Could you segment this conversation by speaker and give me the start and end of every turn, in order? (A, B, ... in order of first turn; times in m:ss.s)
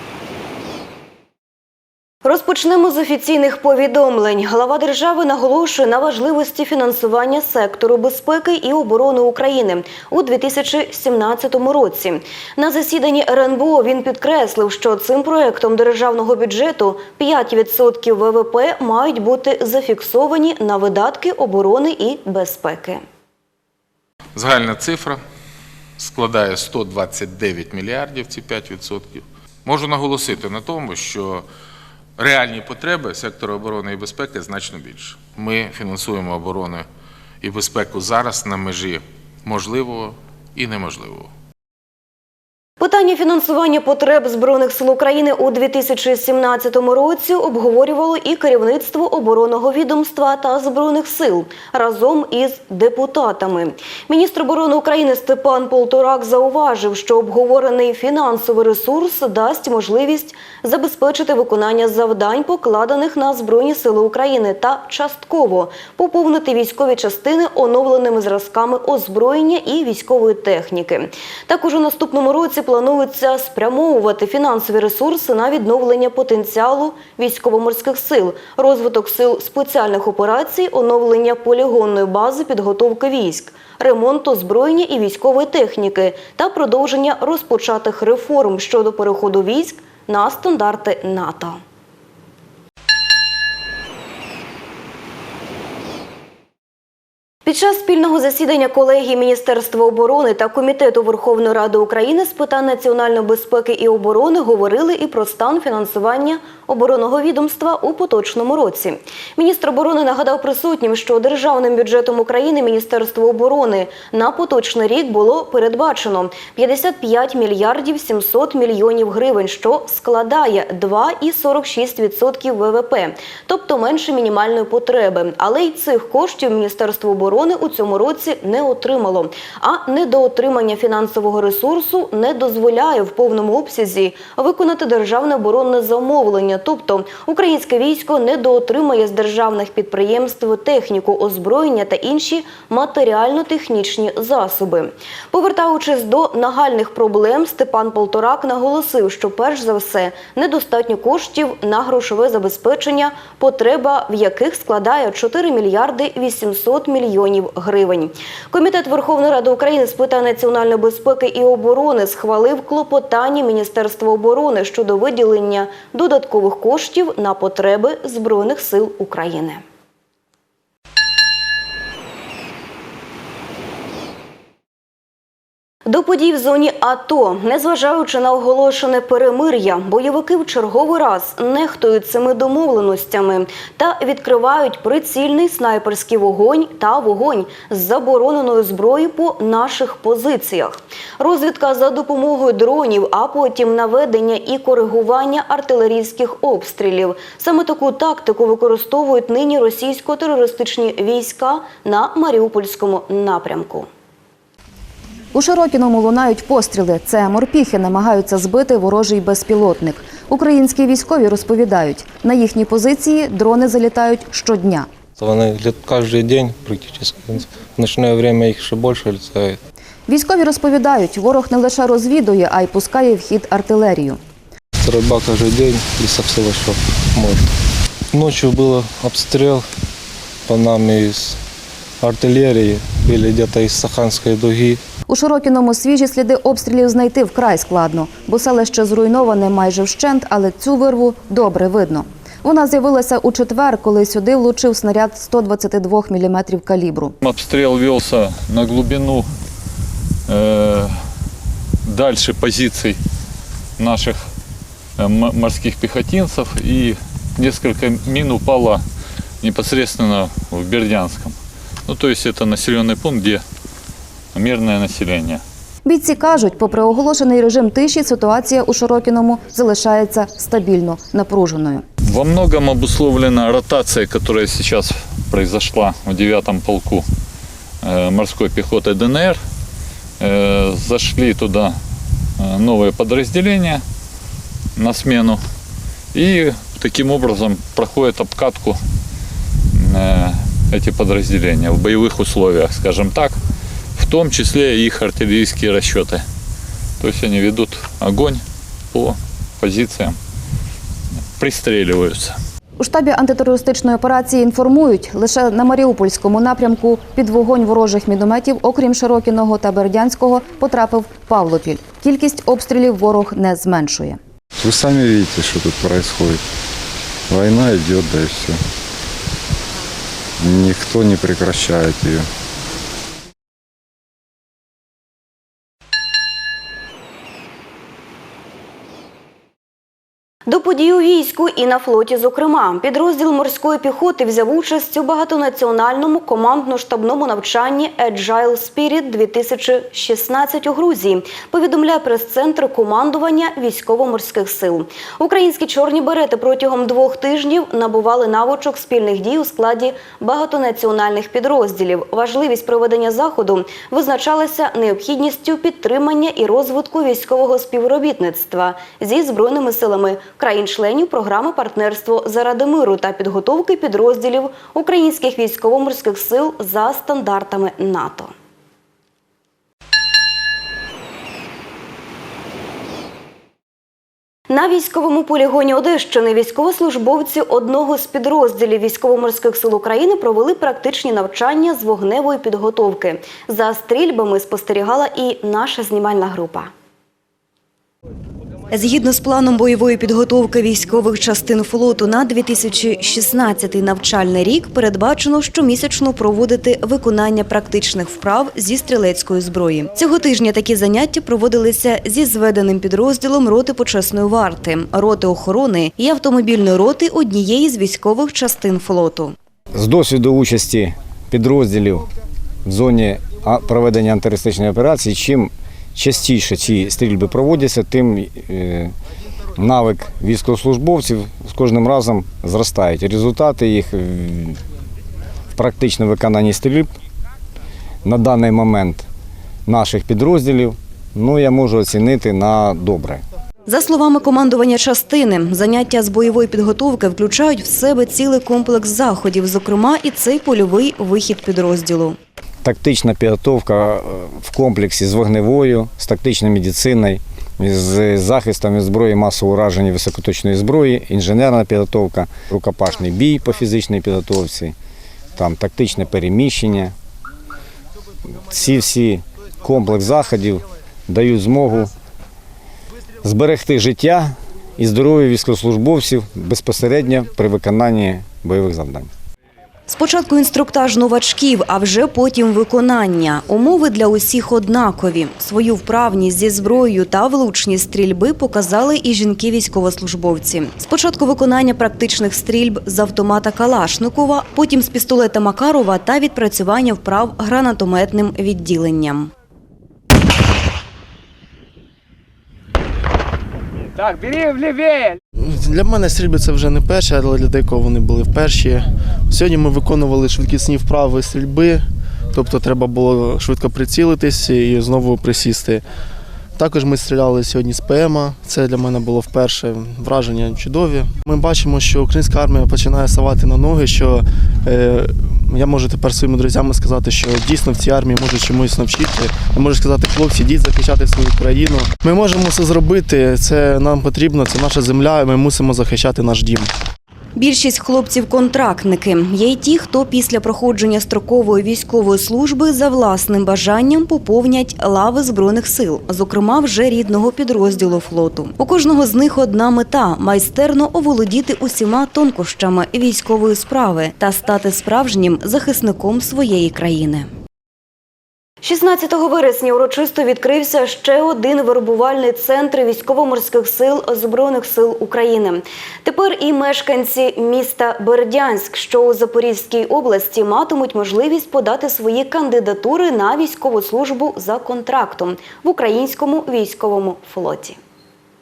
0:02.2-0:23.0 A
0:24.3-0:25.2 B
0:26.0-0:31.4 B
0:32.2-0:36.9 B
0:37.4-0:41.3 B
0:42.8-1:31.6 A
1:37.4-2:49.6 A
2:55.8-3:23.9 A
3:25.3-3:34.9 C
3:35.2-3:39.6 D
3:40.1-3:44.2 C
3:44.8-3:47.5 D
3:48.1-3:49.7 D
3:50.4-3:51.4 D
3:52.0-3:54.8 D
3:55.1-4:07.1 C
4:07.2-4:09.3 E
4:10.3-4:11.0 E
4:11.8-4:13.0 E
4:13.8-4:14.3 E
4:15.0-4:18.8 E
4:19.4-4:23.4 E
4:24.3-4:25.4 E
4:25.8-4:31.8 C
4:32.0-4:37.0 E
4:37.8-4:39.4 E
4:40.2-4:41.8 E
4:42.4-4:43.8 E
4:44.8-4:45.4 E
4:46.1-4:48.8 E
4:49.7-4:53.4 E
4:54.0-4:56.2 E
4:57.0-5:00.2 E
5:01.3-5:02.4 E
5:02.8-5:14.2 C
5:14.6-5:16.4 F
5:17.3-5:18.6 F
5:20.4-5:22.3 F
5:30.5-6:08.3 A
6:14.5-6:26.7 A
6:28.7-6:49.3 A
6:49.7-6:52.1 G
6:52.6-6:58.9 G
6:59.6-7:04.6 G
7:05.6-7:06.9 G
7:08.0-7:09.0 G
7:09.6-7:13.2 G
7:13.7-7:22.2 A
7:22.6-7:34.7 G
7:35.4-7:36.9 G
7:38.4-7:41.9 G
7:43.2-7:49.1 G
7:49.9-8:09.3 A
8:15.4-8:25.8 H
8:26.6-8:46.7 H
8:47.4-9:07.3 A
9:08.6-9:27.8 A